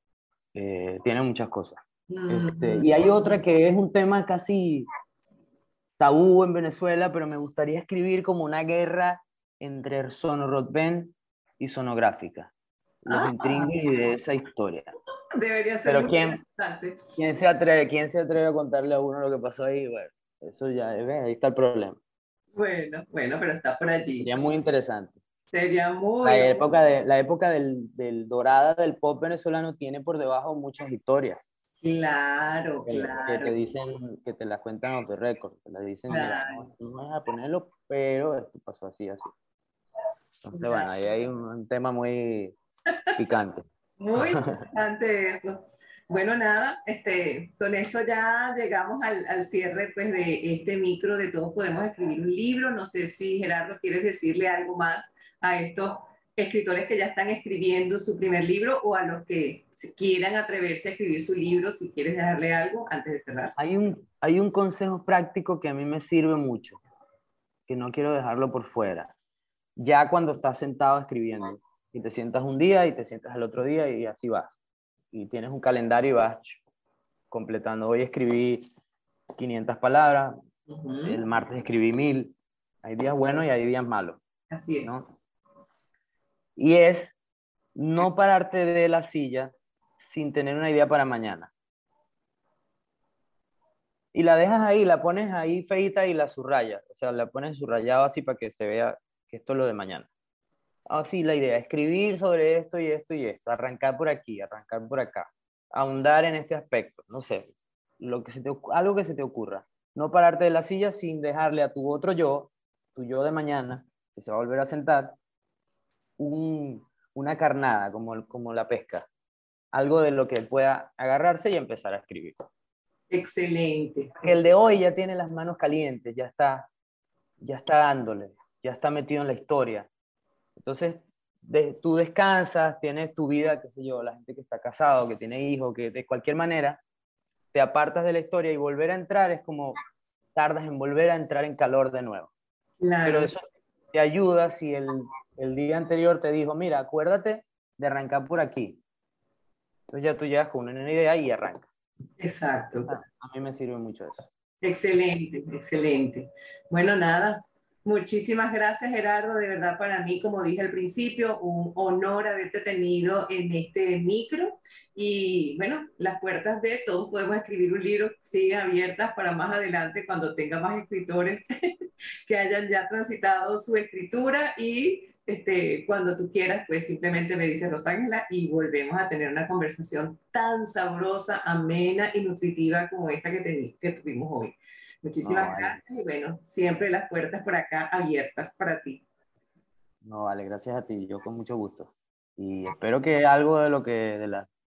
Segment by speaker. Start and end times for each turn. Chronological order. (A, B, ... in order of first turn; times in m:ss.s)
0:00.5-0:04.9 A
0:02.1-0:03.4 B
0:06.0-0:12.5 A
0:13.0-0:14.9 A
0:13.1-0:13.9 B
0:15.4-0:17.0 B
0:15.8-0:16.4 A
0:17.2-0:22.0 A
0:22.5-0:24.3 B
0:24.2-0:25.2 A
0:25.5-0:26.6 B
0:26.2-0:31.5 A
0:31.8-0:33.6 B
0:32.8-0:39.3 A
0:36.1-0:36.7 B
0:40.4-0:42.5 A
0:40.5-0:40.9 B
0:43.2-0:43.6 A
0:44.0-1:03.6 B
1:03.6-1:06.8 A
1:07.7-1:09.1 A
1:09.8-1:14.6 A
1:15.1-1:16.6 A
1:17.3-1:18.6 A
1:19.4-1:20.4 A
1:20.7-1:21.2 B
1:21.0-1:24.2 A
1:24.5-1:25.0 B
1:24.8-1:25.1 A
1:26.6-1:27.2 A
1:27.8-1:31.5 A
1:34.1-1:40.1 A
1:40.9-1:55.2 A
1:56.2-1:59.0 A
1:59.7-2:02.4 A
2:03.1-2:04.3 B
2:04.2-2:06.7 A
2:07.4-2:09.9 A
2:10.6-2:16.8 A
2:17.5-2:19.8 A
2:20.3-2:22.3 A
2:22.8-2:23.3 B
2:23.0-2:23.4 A
2:23.9-2:28.8 A
2:29.9-2:31.7 A
2:32.2-2:33.0 B
2:32.9-2:34.3 A
2:34.6-3:09.0 B
3:05.2-3:05.8 A
3:10.0-3:14.5 A